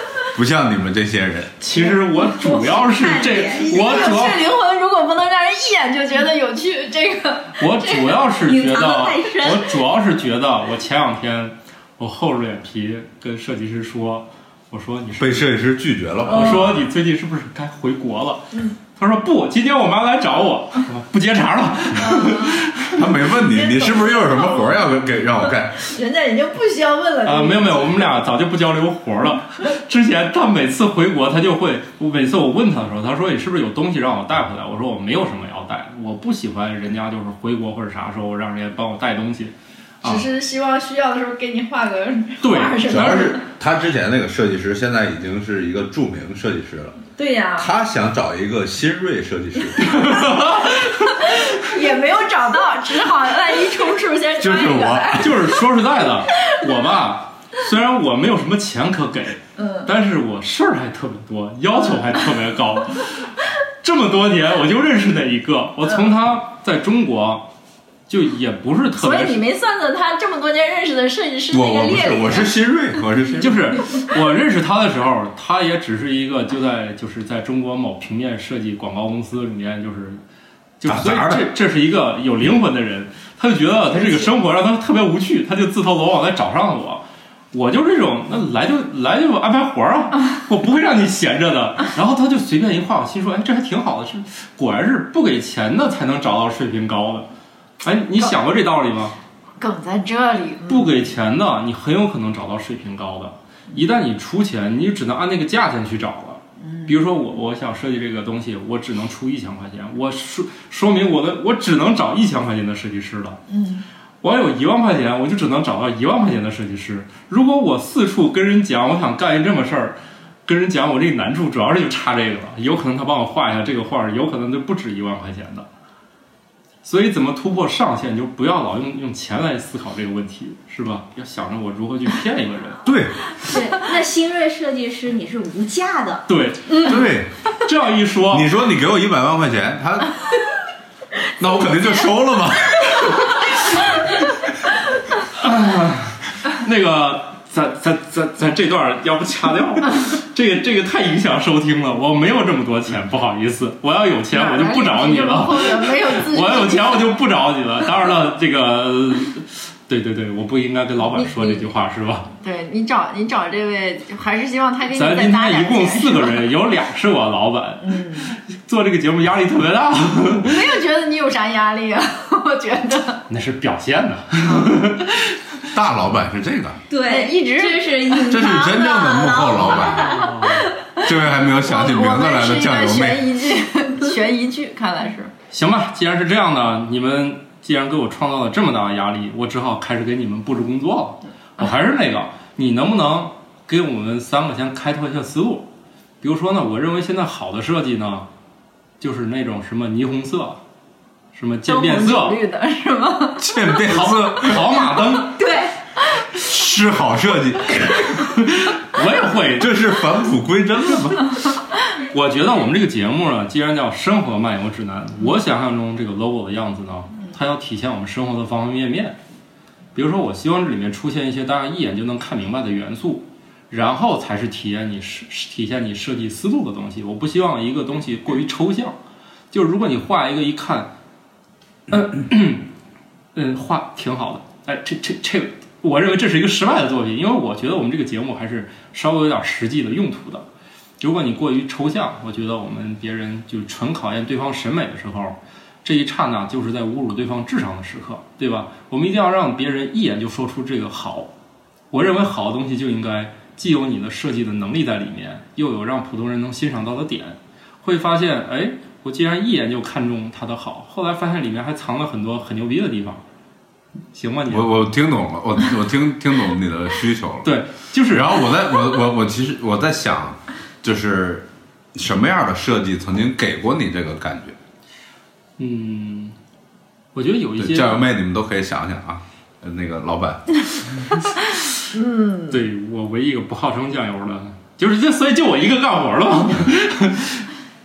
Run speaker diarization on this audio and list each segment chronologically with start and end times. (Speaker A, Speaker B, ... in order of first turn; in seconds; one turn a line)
Speaker A: 0.3-1.6
Speaker B: 1.6-4.5
Speaker C: 2.2-4.3
Speaker D: 3.6-8.1
Speaker B: 7.6-15.6
Speaker C: 8.4-9.8
Speaker A: 15.2-16.9
Speaker B: 16.3-23.0
Speaker D: 22.0-22.6
Speaker A: 22.9-25.8
Speaker D: 23.3-24.9
Speaker D: 25.8-28.1
Speaker B: 27.2-40.3
Speaker D: 40.0-43.4
Speaker B: 42.4-43.3
Speaker A: 42.9-47.0
Speaker D: 47.2-47.7
Speaker A: 47.6-50.2
Speaker B: 49.8-51.5
Speaker D: 51.0-55.5
Speaker A: 54.4-55.3
Speaker B: 55.1-67.5
Speaker D: 59.6-59.9
Speaker B: 68.1-69.4
Speaker D: 69.0-72.6
Speaker A: 71.5-73.7
Speaker B: 73.4-80.2
Speaker B: 80.8-97.3
Speaker A: 80.9-81.5
Speaker D: 84.0-84.3
Speaker B: 97.8-99.1
Speaker D: 99.6-101.0
Speaker B: 100.7-113.4
Speaker D: 106.6-107.0
Speaker D: 113.5-113.8
Speaker B: 114.2-125.7
Speaker B: 126.8-132.8
Speaker A: 132.8-133.3
Speaker C: 133.4-136.3
Speaker B: 136.3-137.1
Speaker A: 136.8-137.3
Speaker B: 137.6-138.5
Speaker A: 138.3-140.2
Speaker A: 141.4-143.4
Speaker B: 145.3-162.3
Speaker D: 154.3-157.2
Speaker D: 161.1-161.7
Speaker D: 162.4-166.5
Speaker B: 164.9-170.6
Speaker D: 167.8-168.3
Speaker D: 170.4-173.2
Speaker B: 173.3-175.4
Speaker A: 175.7-176.8
Speaker C: 176.9-180.7
Speaker D: 177.1-178.4
Speaker A: 178.3-180.3
Speaker B: 179.7-180.7
Speaker A: 181.0-183.3
Speaker D: 181.1-185.3
Speaker B: 185.5-195.7
Speaker B: 196.2-198.3
Speaker B: 199.0-200.6
Speaker B: 201.3-202.4
Speaker D: 201.7-203.6
Speaker A: 203.4-204.9
Speaker B: 203.8-205.4
Speaker C: 205.4-205.7
Speaker A: 206.3-208.2
Speaker B: 208.4-209.8
Speaker A: 209.6-211.3
Speaker B: 212.1-219.2
Speaker B: 219.9-229.0
Speaker B: 229.5-230.9
Speaker B: 231.9-232.7
Speaker B: 233.3-240.4
Speaker B: 241.0-251.3
Speaker B: 251.9-263.2
Speaker B: 264.1-264.8
Speaker A: 264.5-267.5
Speaker B: 267.4-268.4
Speaker A: 268.1-274.6
Speaker B: 275.6-276.4
Speaker B: 277.1-278.1
Speaker A: 277.6-280.6
Speaker D: 281.9-282.6
Speaker B: 282.5-287.5